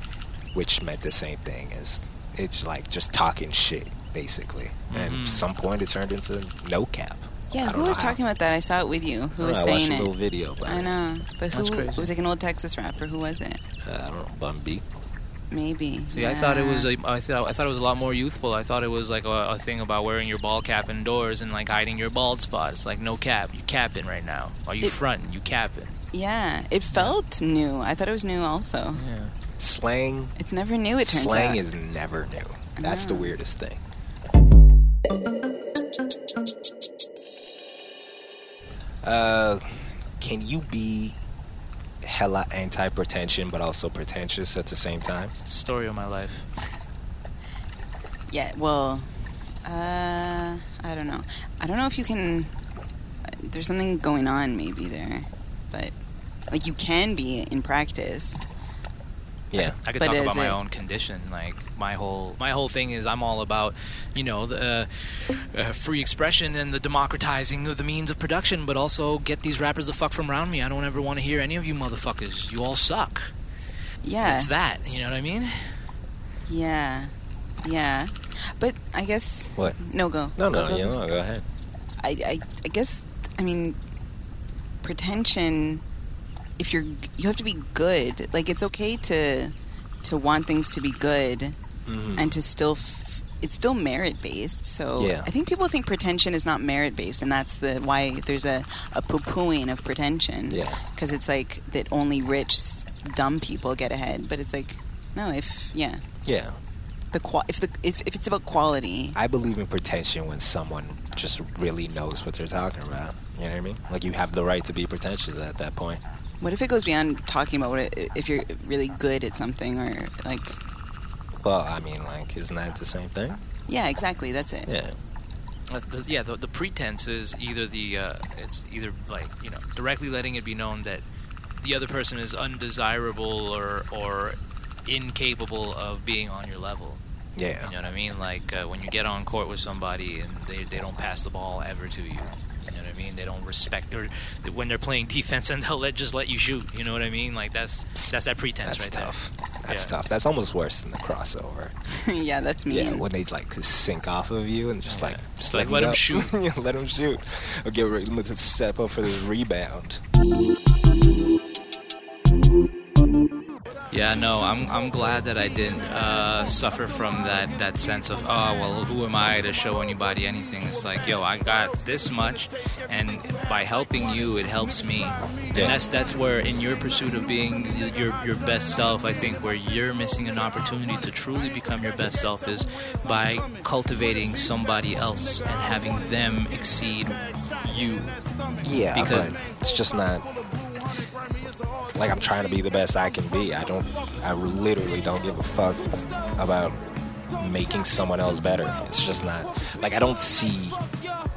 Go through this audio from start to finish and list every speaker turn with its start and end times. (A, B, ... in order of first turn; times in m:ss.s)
0:00.5-0:08.2 A
0:04.9-0:05.5 B
0:07.5-0:10.1 C
0:09.4-0:10.9 A
0:10.6-0:13.6 C
0:11.5-0:12.1 B
0:13.8-0:14.8 A
0:15.5-0:16.9 C
0:16.1-0:26.0 B
0:26.1-0:29.0 C
0:29.0-0:29.4 B
0:29.6-0:30.4 A
0:30.4-0:31.6 C
0:31.0-0:33.8 A
0:32.8-0:33.4 C
0:39.0-0:41.2 A
0:42.0-0:45.3 A
0:45.5-0:46.5 B
0:48.3-0:49.1 C
0:49.6-0:52.5 C
0:53.4-0:55.9 C
0:56.5-0:58.4 C
0:59.5-0:59.8 A
0:59.6-1:13.3 B
1:00.0-1:00.6 C
1:14.0-1:14.5 C
1:14.2-1:15.8 B
1:16.5-1:21.0 C
1:20.4-1:21.4 A
1:22.0-1:23.8 C
1:24.8-1:25.8 C
1:26.6-1:31.6 C
1:31.9-1:32.4 A
1:32.2-1:46.0 C
1:35.0-1:35.3 A
1:40.5-1:40.8 A
1:46.2-1:46.6 A
1:47.1-1:49.2 C
1:49.1-1:56.0 A
1:56.4-2:00.6 C
2:01.4-2:03.4 A
2:03.7-2:04.7 C
2:04.7-2:05.0 A
2:05.7-2:11.0 B
2:11.6-2:17.0 B
2:17.4-2:17.7 A
2:17.6-2:29.2 B
2:28.6-2:31.7 A
2:29.7-2:29.9 B
2:31.9-2:33.0 C
2:32.7-2:40.0 A
2:34.9-2:36.3 B
2:43.9-3:08.3 B
2:55.5-2:55.8 A
3:08.6-3:10.3 A
3:08.9-3:09.4 B
3:11.9-3:16.8 A
3:17.4-3:20.8 A